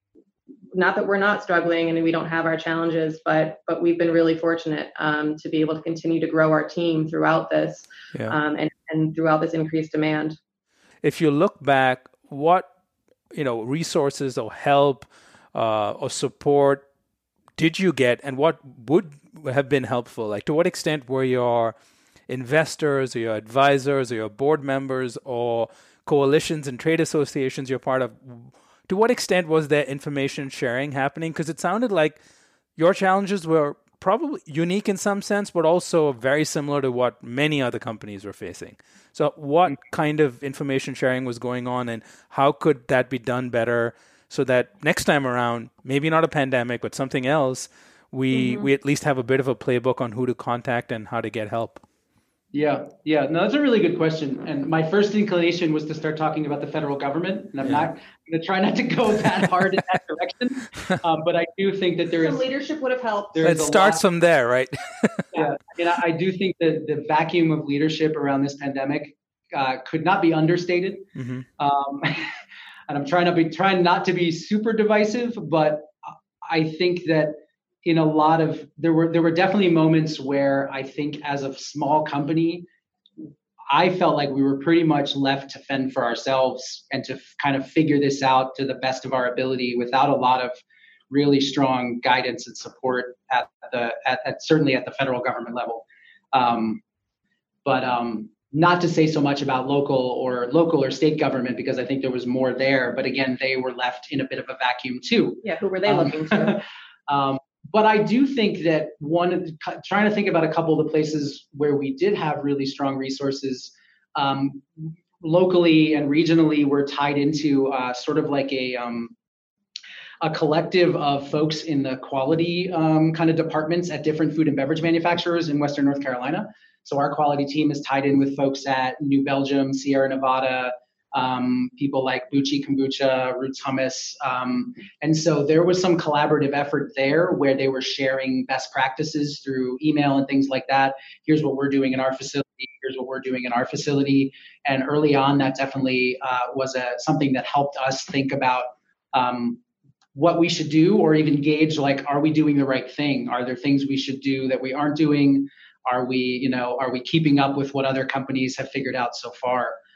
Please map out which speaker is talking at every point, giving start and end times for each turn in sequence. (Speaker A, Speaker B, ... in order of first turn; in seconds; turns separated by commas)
Speaker A: 0.7-10.4, Speaker B: 11.0-12.7, Speaker B: 13.3-16.9, Speaker B: 17.6-21.8, Speaker B: 22.3-32.2, Speaker B: 32.8-51.8, Speaker A: 48.3-48.7, Speaker C: 52.5-62.5, Speaker A: 62.2-63.6, Speaker C: 63.4-64.0, Speaker B: 63.4-65.3, Speaker C: 65.3-72.3, Speaker B: 71.2-71.5, Speaker C: 72.9-82.7, Speaker C: 83.7-96.8, Speaker C: 97.7-119.2, Speaker A: 105.4-106.6, Speaker C: 120.2-149.6, Speaker C: 150.1-159.8